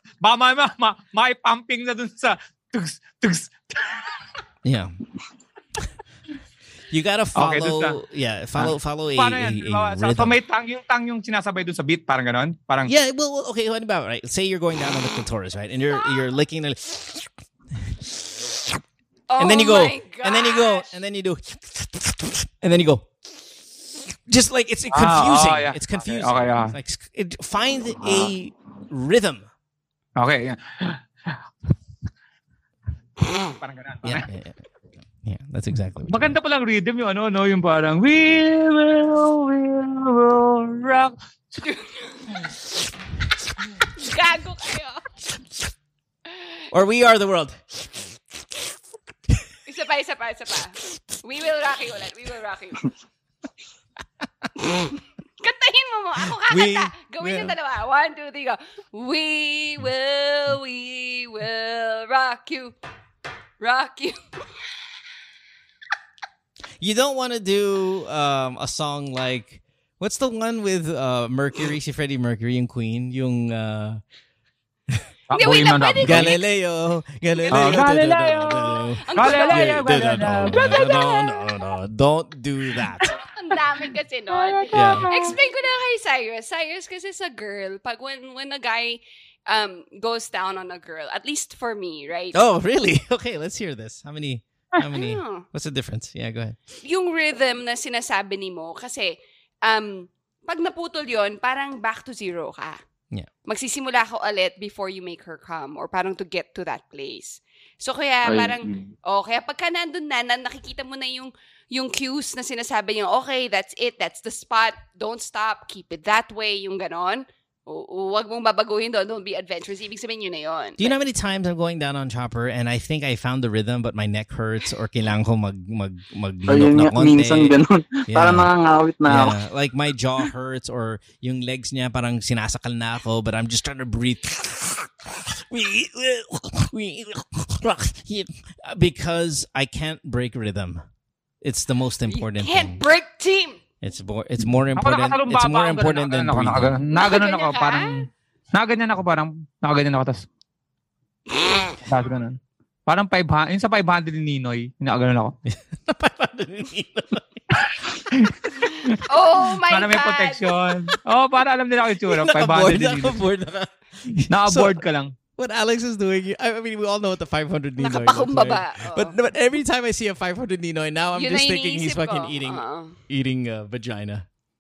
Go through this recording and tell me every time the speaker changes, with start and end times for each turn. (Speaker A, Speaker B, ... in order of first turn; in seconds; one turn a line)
Speaker A: 0.2-4.2
Speaker B: 4.7-5.0
Speaker B: 6.9-10.4
Speaker A: 7.3-8.0
Speaker A: 8.6-12.9
Speaker B: 12.9-18.8
Speaker C: 19.3-20.9
Speaker B: 19.4-29.5
Speaker A: 24.9-26.8
Speaker D: 28.0-28.3
Speaker A: 30.2-31.4
Speaker A: 33.5-34.3
Speaker B: 34.0-34.6
Speaker B: 35.2-36.4
Speaker A: 36.1-41.1
Speaker C: 41.6-42.4
Speaker C: 44.0-45.1
Speaker B: 46.7-48.2
Speaker C: 49.7-52.9
Speaker C: 54.6-62.8
Speaker B: 56.2-57.5
Speaker C: 63.6-64.4
Speaker B: 66.8-74.0
Speaker A: 75.3-76.3
Speaker C: 75.3-76.4
Speaker B: 76.0-83.2
Speaker C: 77.5-77.8
Speaker A: 77.5-81.1
Speaker C: 79.0-79.9
Speaker C: 80.5-81.4
Speaker C: 83.2-92.4
Speaker A: 84.3-85.4
Speaker B: 84.7-85.1
Speaker B: 92.3-96.6
Speaker C: 94.9-95.5
Speaker C: 96.8-102.8
Speaker C: 103.5-120.9
Speaker D: 108.2-108.9
Speaker B: 120.8-127.6
Speaker D: 126.5-129.4
Speaker B: 128.1-128.5
Speaker B: 129.1-140.8
Speaker B: 141.4-142.8
Speaker C: 142.1-143.6
Speaker B: 143.8-146.8
Speaker A: 144.8-150.2
Speaker C: 146.9-148.1
Speaker C: 151.4-151.7
Speaker A: 151.8-155.3
Speaker B: 155.4-157.6
Speaker A: 157.5-159.0
Speaker C: 159.1-160.5
Speaker A: 159.7-163.2
Speaker B: 162.0-164.8
Speaker A: 164.3-165.2
Speaker B: 165.4-174.3
Speaker C: 167.8-169.2
Speaker C: 171.2-173.0